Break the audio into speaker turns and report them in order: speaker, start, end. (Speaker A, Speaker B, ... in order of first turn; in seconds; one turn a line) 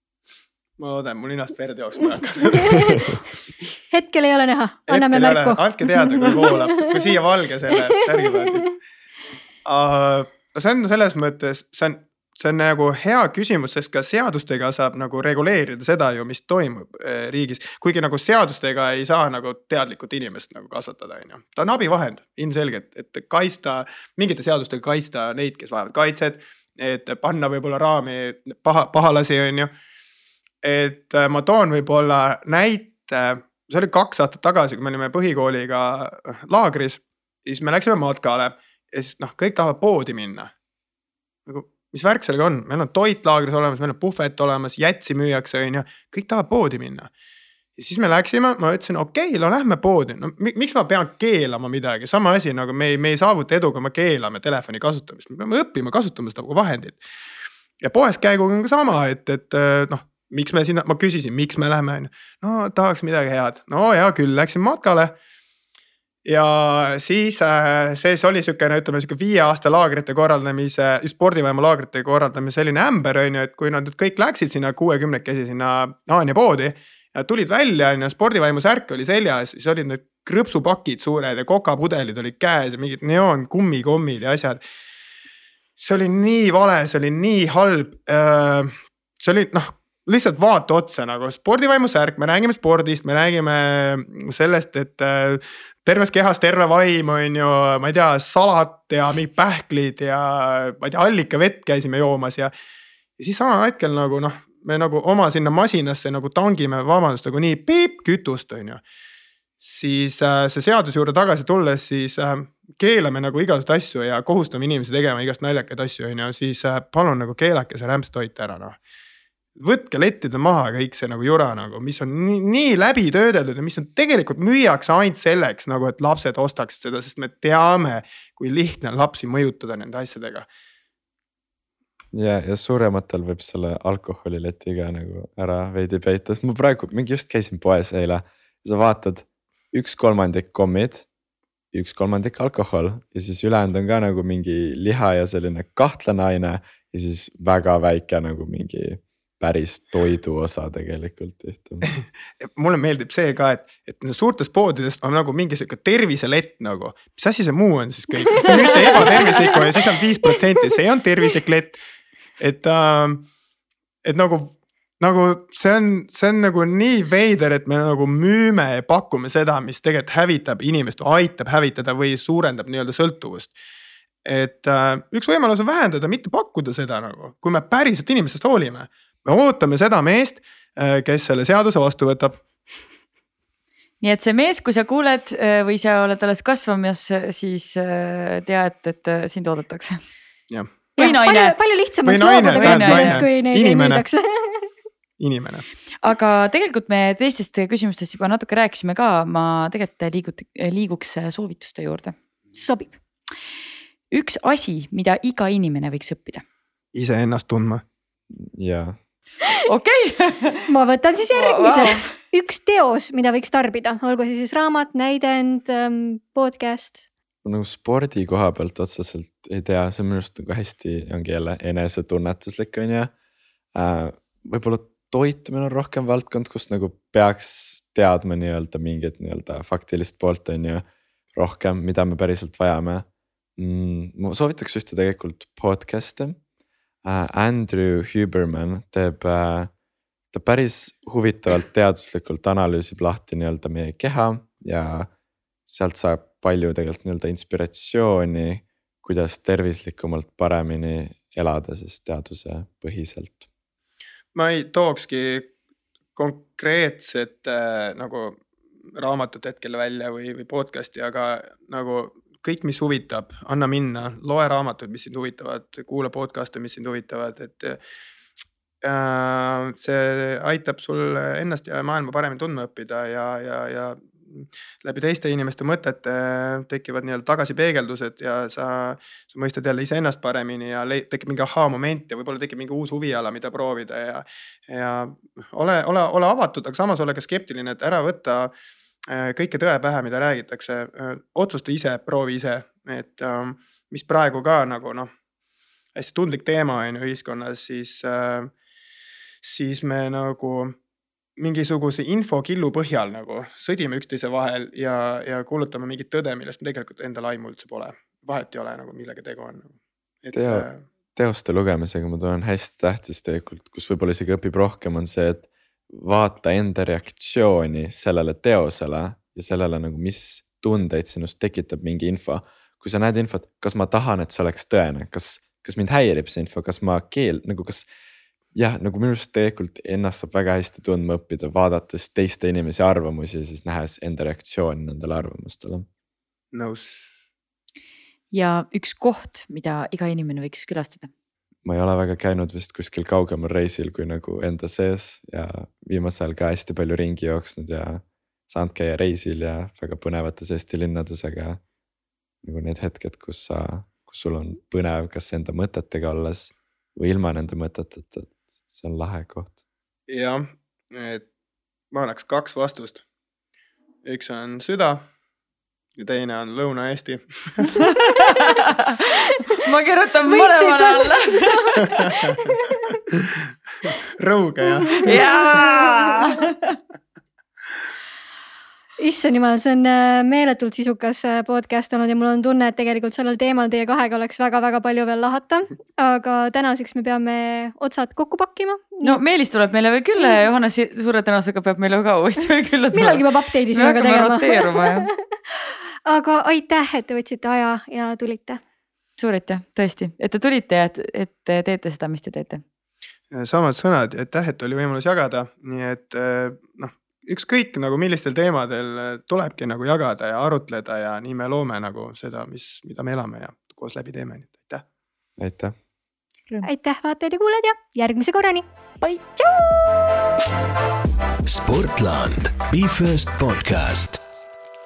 Speaker A: 0.8-3.0
Speaker B: 2.6-3.0
Speaker B: 3.9-6.6
Speaker A: 4.9-8.8
Speaker A: 9.6-29.7
Speaker A: 30.6-40.5
Speaker A: 41.5-47.1
Speaker A: 47.8-57.0
Speaker A: 57.8-65.1
Speaker A: 66.2-84.6
Speaker A: 85.8-102.5
Speaker A: 103.2-108.8
Speaker A: 109.6-118.8
Speaker A: 119.6-130.5
Speaker C: 132.1-141.1
Speaker C: 141.7-151.9
Speaker A: 151.9-161.8
Speaker A: 162.4-163.3
Speaker A: 164.0-173.5
Speaker A: 174.2-182.4
Speaker D: 184.0-190.0
Speaker D: 191.0-191.5
Speaker B: 191.0-194.7
Speaker A: 192.0-194.0
Speaker D: 192.5-193.3
Speaker A: 195.2-195.7
Speaker D: 196.0-202.1
Speaker B: 202.6-202.9
Speaker D: 204.1-206.4
Speaker A: 206.9-207.8
Speaker C: 208.3-209.0
Speaker D: 209.7-210.7
Speaker B: 210.7-217.0
Speaker D: 211.3-212.1
Speaker C: 217.4-223.1
Speaker C: 223.7-233.1
Speaker C: 233.6-236.4
Speaker C: 237.0-239.7
Speaker C: 240.3-245.1
Speaker C: 245.7-253.5
Speaker A: 254.3-255.5
Speaker A: 256.1-258.4
Speaker A: 258.9-267.8
Speaker A: 268.8-288.5
Speaker A: 289.1-295.1
Speaker A: 295.9-298.5
Speaker A: 299.4-300.7
Speaker A: 301.4-310.8
Speaker C: 310.3-327.9
Speaker C: 328.5-335.9
Speaker A: 336.5-337.1
Speaker D: 338.3-341.1
Speaker C: 341.6-351.6
Speaker C: 352.4-359.6
Speaker A: 360.1-361.2
Speaker A: 361.9-363.0
Speaker A: 364.0-365.0
Speaker A: 366.0-367.8
Speaker B: 368.1-368.4
Speaker D: 368.2-368.9
Speaker D: 369.6-372.1
Speaker B: 370.2-373.0
Speaker A: 373.1-375.3
Speaker B: 375.0-375.8
Speaker D: 375.0-376.8
Speaker B: 379.0-389.2
Speaker D: 389.0-395.1
Speaker B: 392.9-395.1
Speaker B: 396.1-398.6
Speaker D: 399.2-402.6
Speaker A: 403.3-414.8
Speaker C: 415.4-415.8
Speaker B: 416.6-418.7
Speaker E: 421.4-424.2